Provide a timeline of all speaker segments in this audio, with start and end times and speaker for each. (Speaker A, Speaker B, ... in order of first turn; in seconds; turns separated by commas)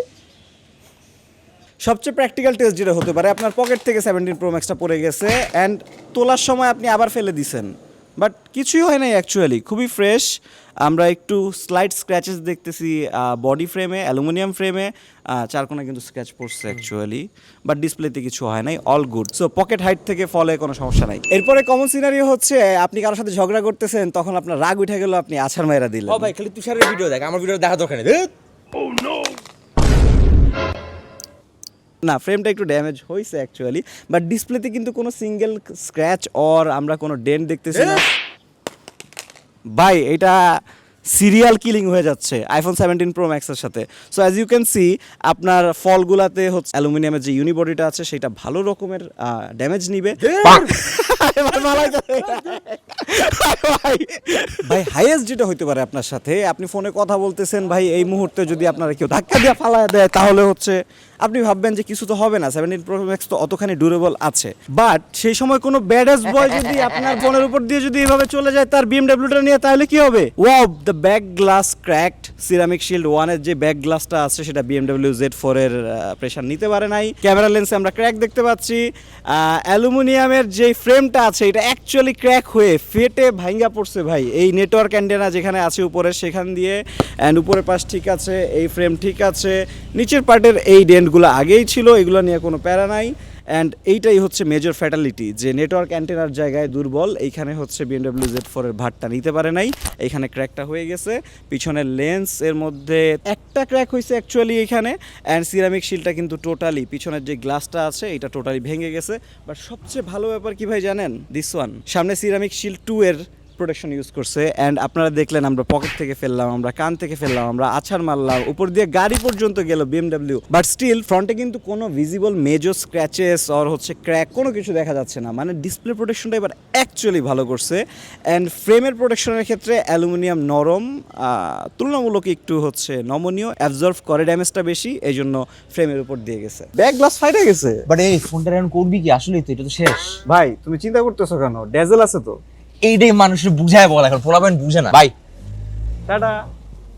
Speaker A: 1.8-10.3, Speaker A: 10.8-26.3, Speaker B: 26.1-28.3, Speaker A: 32.0-38.2, Speaker A: 39.8-40.4, Speaker A: 41.1-137.8, Speaker B: 50.2-50.7, Speaker B: 137.9-140.2, Speaker A: 140.2-142.4, Speaker B: 142.8-145.1, Speaker A: 146.1-146.3